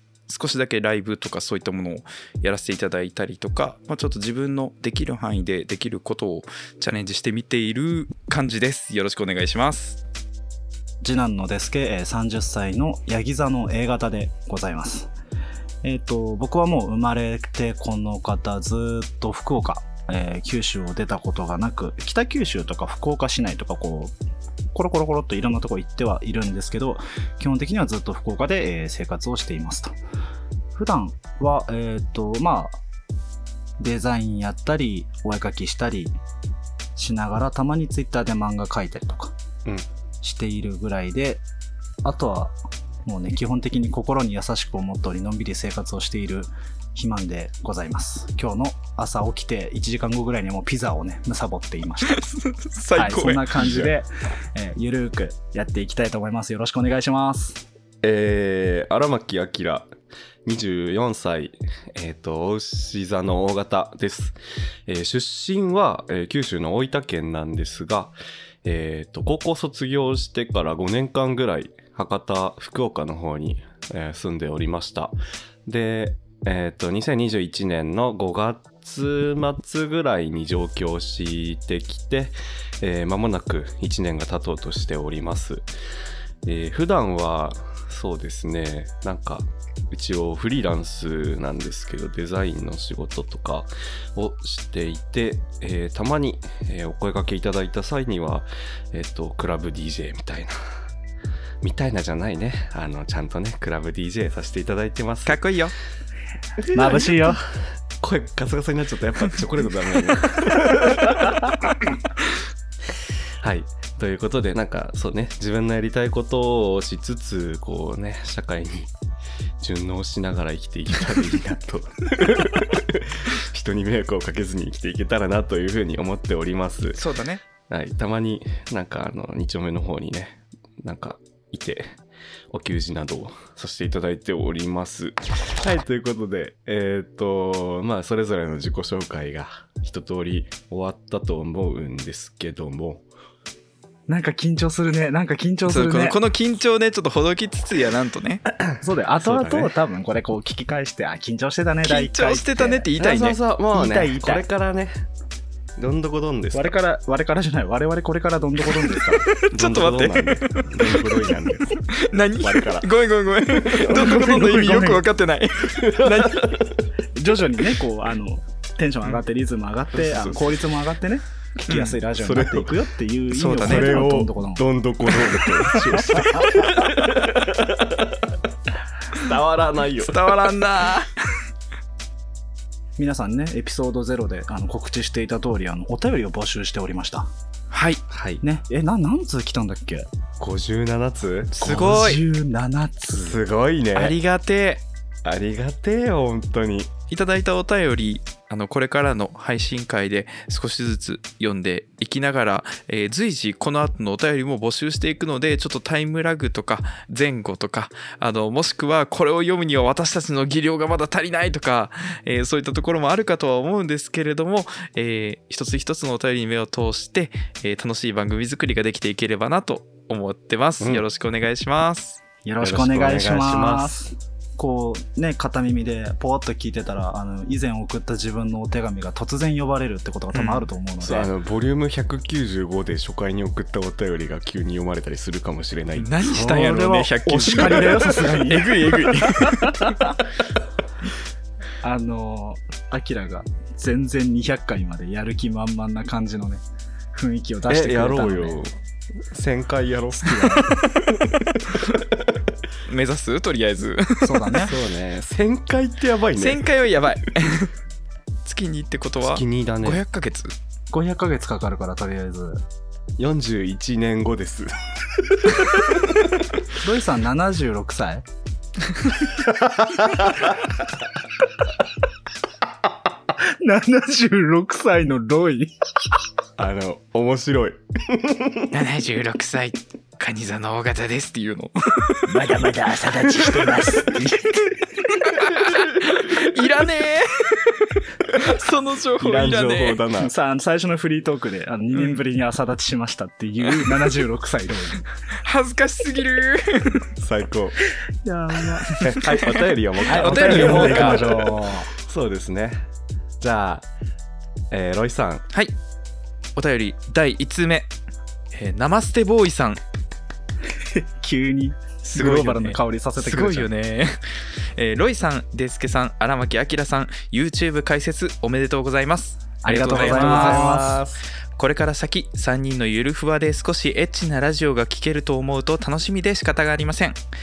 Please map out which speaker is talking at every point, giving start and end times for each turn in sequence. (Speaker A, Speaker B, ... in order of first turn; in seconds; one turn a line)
Speaker A: 0.3-10.0
Speaker B: 11.0-15.1
Speaker B: 15.8-24.1
Speaker B: 24.7-29.9
Speaker B: 30.7-32.8
Speaker B: 33.8-36.1
Speaker B: 37.0-39.3
Speaker B: 40.2-41.4
Speaker B: 42.0-52.2
Speaker A: 52.0-53.4
Speaker B: 52.9-57.6
Speaker C: 53.5-53.9
Speaker C: 58.0-59.9
Speaker C: 60.4-75.1
Speaker C: 75.7-85.7
Speaker C: 86.4-100.5
Speaker C: 101.6-105.4
Speaker A: 105.2-105.7
Speaker C: 106.6-111.7
Speaker B: 106.7-107.4
Speaker C: 113.4-118.9
Speaker C: 119.6-127.0
Speaker A: 126.9-127.4
Speaker C: 127.7-131.9
Speaker C: 132.5-143.0
Speaker B: 144.1-146.2
Speaker A: 145.7-148.4
Speaker B: 148.8-152.9
Speaker C: 149.2-149.7
Speaker A: 151.8-153.4
Speaker C: 152.9-155.0
Speaker B: 153.7-154.4
Speaker C: 155.8-156.7
Speaker B: 156.5-159.3
Speaker A: 159.1-166.6
Speaker C: 159.5-161.8
Speaker C: 162.4-162.9
Speaker C: 163.6-164.0
Speaker B: 163.7-165.0
Speaker C: 165.7-166.7
Speaker B: 167.1-174.6
Speaker C: 169.9-170.6
Speaker A: 171.7-172.0
Speaker C: 172.1-172.8
Speaker A: 173.3-174.0
Speaker C: 173.6-178.4
Speaker A: 175.2-175.5
Speaker B: 175.7-176.5
Speaker C: 179.1-180.6
Speaker A: 180.0-181.3
Speaker B: 183.0-187.3
Speaker A: 187.7-188.0
Speaker C: 188.1-188.4
Speaker B: 188.4-190.1
Speaker C: 190.4-192.0
Speaker A: 191.6-192.2
Speaker B: 191.6-193.4
Speaker C: 193.0-194.2
Speaker A: 193.9-194.8
Speaker C: 195.2-196.9
Speaker A: 197.1-222.2
Speaker B: 222.4-231.3
Speaker C: 222.6-223.9
Speaker A: 230.3-230.7
Speaker C: 231.0-236.2
Speaker A: 235.9-240.0
Speaker B: 236.2-240.2
Speaker B: 241.8-246.6
Speaker B: 247.1-248.6
Speaker C: 247.7-248.7
Speaker C: 249.3-250.8
Speaker B: 250.3-250.6
Speaker C: 251.3-252.4
Speaker A: 252.9-254.7
Speaker B: 254.2-254.7
Speaker C: 254.6-256.6
Speaker A: 256.4-257.7
Speaker A: 258.4-260.5
Speaker C: 259.2-260.0
Speaker B: 260.9-262.6
Speaker C: 263.2-264.8
Speaker C: 265.3-266.2
Speaker B: 266.8-268.2
Speaker C: 269.8-270.4
Speaker B: 273.4-275.7
Speaker C: 276.6-278.7
Speaker A: 278.7-282.3
Speaker B: 282.2-285.4
Speaker A: 283.3-284.1
Speaker A: 285.2-290.0
Speaker C: 289.2-290.3
Speaker B: 290.2-295.1
Speaker A: 291.9-292.2
Speaker A: 293.7-294.1
Speaker A: 295.4-297.0
Speaker C: 297.2-297.8
Speaker B: 298.2-299.2
Speaker A: 298.9-301.2
Speaker C: 298.9-302.8
Speaker B: 300.1-301.9
Speaker C: 303.4-303.9
Speaker C: 304.7-305.4
Speaker A: 306.6-307.9
Speaker A: 308.5-309.8
Speaker B: 310.8-313.7
Speaker A: 312.1-321.0
Speaker B: 319.6-321.0
Speaker C: 319.9-321.2
Speaker A: 321.6-327.2